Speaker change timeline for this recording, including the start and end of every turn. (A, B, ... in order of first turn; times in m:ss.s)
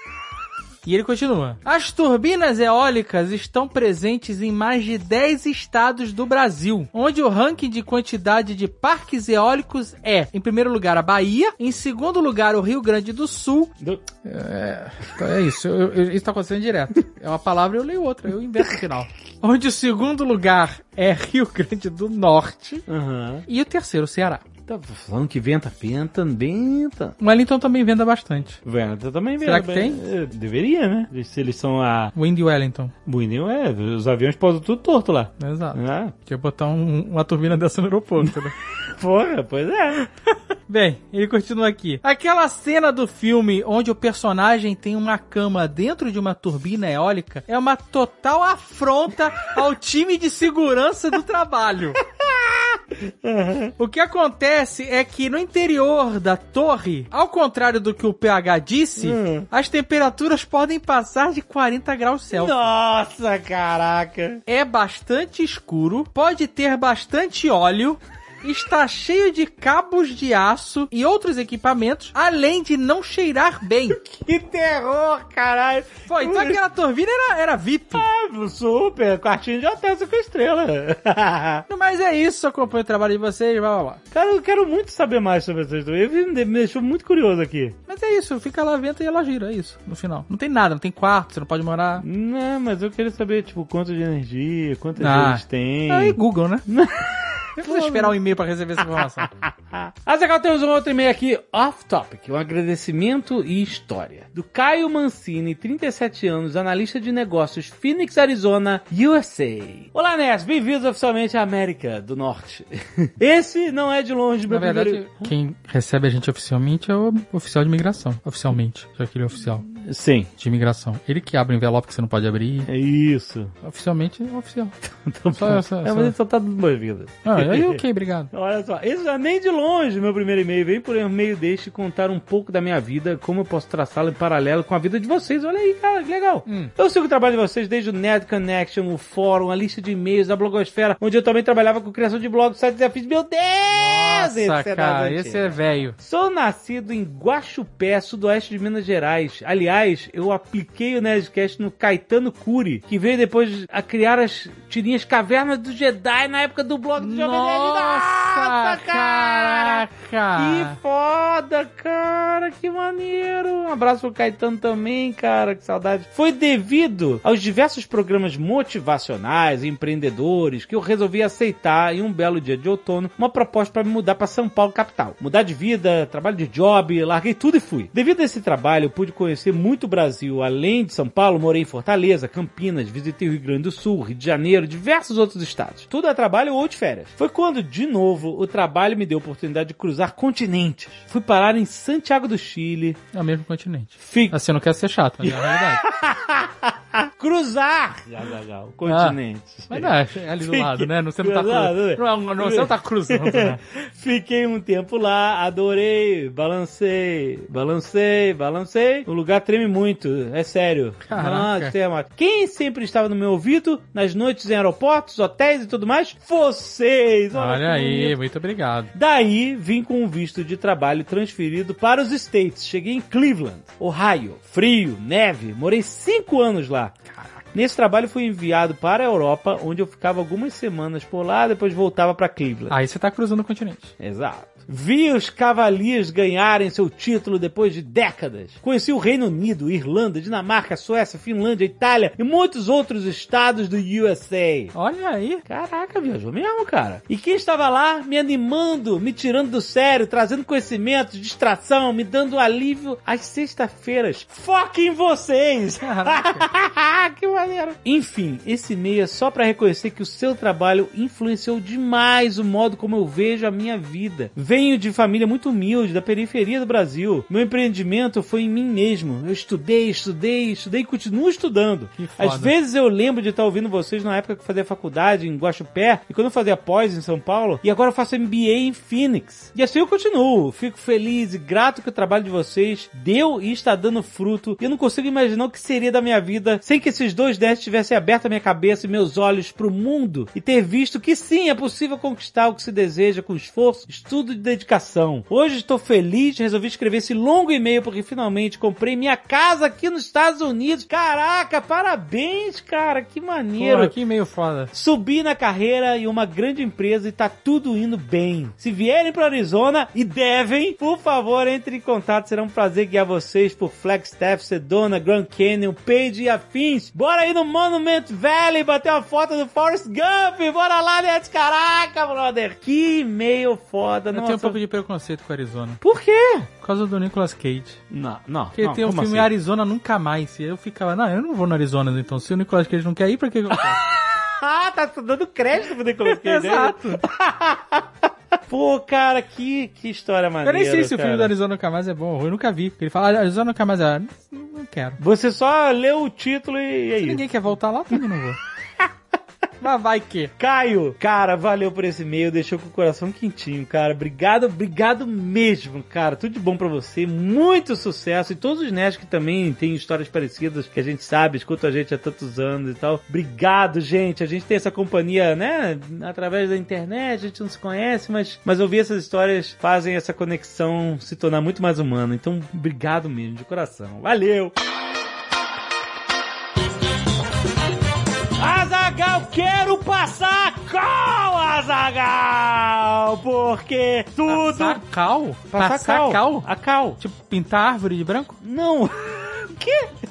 0:00.8-0:13.7 A
0:14.2-0:22.8 A
0:22.9-0:23.4 B
0:23.5-0:24.4 A
0:24.7-0:27.2 B
0:27.2-0:28.6 A
0:28.6-0:32.1 B
0:29.4-0:30.0 A
0:32.2-0:32.9 A
0:33.1-0:36.1 B
0:35.4-0:38.5 A
0:39.0-0:40.0 B
0:40.7-0:52.0 A
0:53.2-0:53.7 B
0:53.8-1:02.6 A
0:59.0-0:59.5 B
1:02.3-1:04.4 B
1:04.5-1:14.0 A
1:14.0-1:16.6 B
1:16.1-1:18.0 A
1:17.9-1:21.6 B
1:21.7-1:24.0 A
1:24.1-1:27.8 B
1:27.9-1:32.0 A
1:32.0-1:38.2 B
1:35.0-1:36.6 A
1:37.6-1:39.3 A
1:39.2-1:55.3 B
1:54.5-1:59.6 A
1:59.8-2:00.3 B
2:00.4-2:02.7 A
2:02.7-2:03.5 B
2:03.6-2:04.7 A
2:05.0-2:07.8 B
2:05.3-2:06.1 A
2:07.3-2:08.3 A
2:08.3-3:13.0 B
2:16.5-2:16.7 A
2:23.7-2:26.0 A
2:37.0-2:40.8 A
3:13.1-3:15.8 A
3:14.0-3:14.3 B
3:15.2-3:38.2 B
3:18.9-3:19.2 A
3:19.7-3:23.6 A
3:31.1-3:31.7 A
3:37.4-3:38.9 A
3:38.9-3:46.9 B
3:47.5-3:52.8 B
3:52.7-3:53.9 A
3:54.0-4:04.7 B
4:04.8-4:05.4 A
4:05.5-5:03.9 B
4:15.8-4:16.4 A
4:32.0-4:32.5 A
5:03.6-5:04.7 A
5:04.7-5:24.6 B
5:24.1-5:25.8 A
5:25.8-5:26.5 B
5:26.6-5:27.8 A
5:27.9-5:29.3 B
5:28.6-5:33.8 A
5:33.9-5:37.9 B
5:36.1-5:37.0 A
5:38.5-5:41.3 B
5:40.4-5:45.0 A
5:45.0-5:47.2 B
5:47.0-5:48.4 A
5:49.6-5:50.3 A
5:50.4-6:14.5 B
6:18.4-6:24.8 B
6:24.3-6:26.5 A
6:25.5-6:27.0 B
6:27.0-6:28.4 A
6:28.4-6:29.9 B